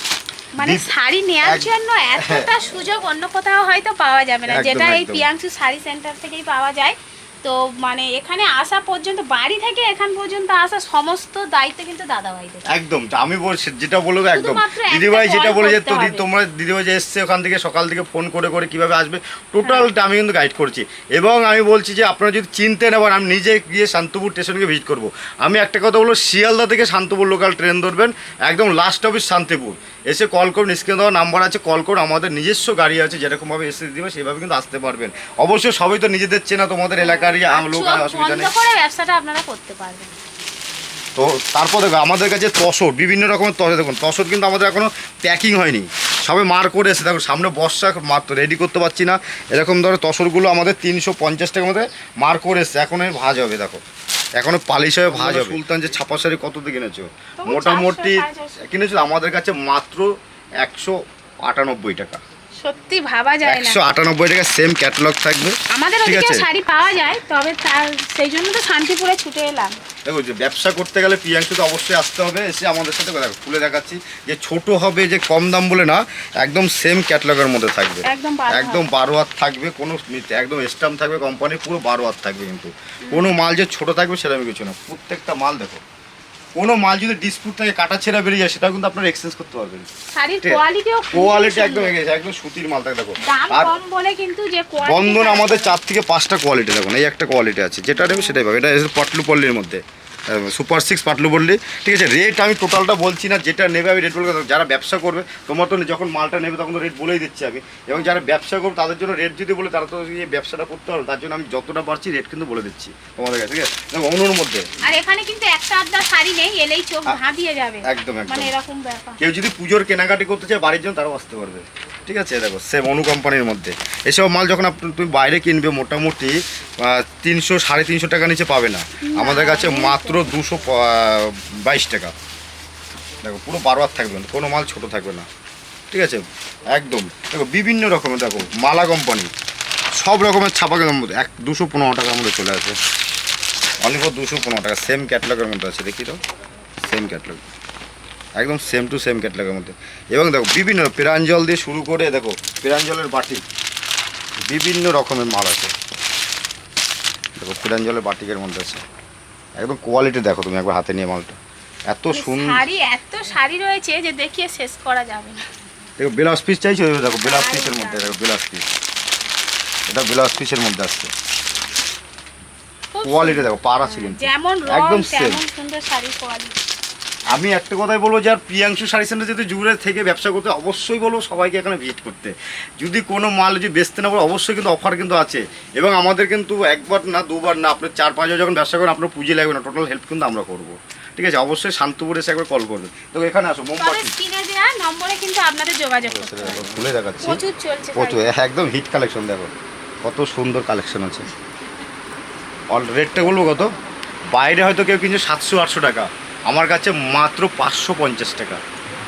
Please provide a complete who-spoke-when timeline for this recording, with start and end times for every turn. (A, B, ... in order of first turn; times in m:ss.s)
0:00.6-0:12.7 A
0:00.6-0:00.9 B
0:01.4-0:02.5 B
0:04.5-0:05.3 B
0:12.6-0:38.5 B
0:14.2-0:16.3 A
0:19.6-0:19.9 A
0:37.0-0:40.2 A
0:41.2-0:53.8 B
0:54.4-1:02.2 B
0:57.4-0:58.6 A
1:02.6-1:03.8 A
1:03.4-1:06.4 B
1:05.7-1:09.8 A
1:10.0-1:25.8 B
1:18.0-1:18.9 A
1:23.0-1:23.3 A
1:26.5-1:29.9 B
1:30.1-1:31.9 A
1:30.4-1:33.7 B
1:33.2-1:35.8 A
1:34.8-1:54.7 B
1:37.9-1:38.4 A
1:54.8-1:59.2 A
1:57.8-1:58.5 B
1:59.2-2:12.1 B
2:09.0-2:10.3 A
2:13.2-2:15.3 B
2:15.9-2:19.3 B
2:19.9-2:22.8 B
2:23.8-2:26.2 B
2:26.8-2:27.4 B
2:28.4-2:33.4 B
2:34.5-2:35.7 B
2:37.4-2:38.8 B
2:39.6-2:41.4 B
2:41.9-2:42.6 B
2:42.1-2:45.4 A
2:46.0-2:48.6 B
2:47.2-2:48.1 A
2:49.9-2:51.1 B
2:52.9-2:56.6 A
2:53.0-2:55.4 B
2:57.3-3:14.1 B
3:13.8-3:18.3 A
3:16.0-3:17.4 B
3:17.9-3:19.5 B
3:20.0-3:21.3 B
3:22.7-3:23.7 B
3:24.3-3:28.6 B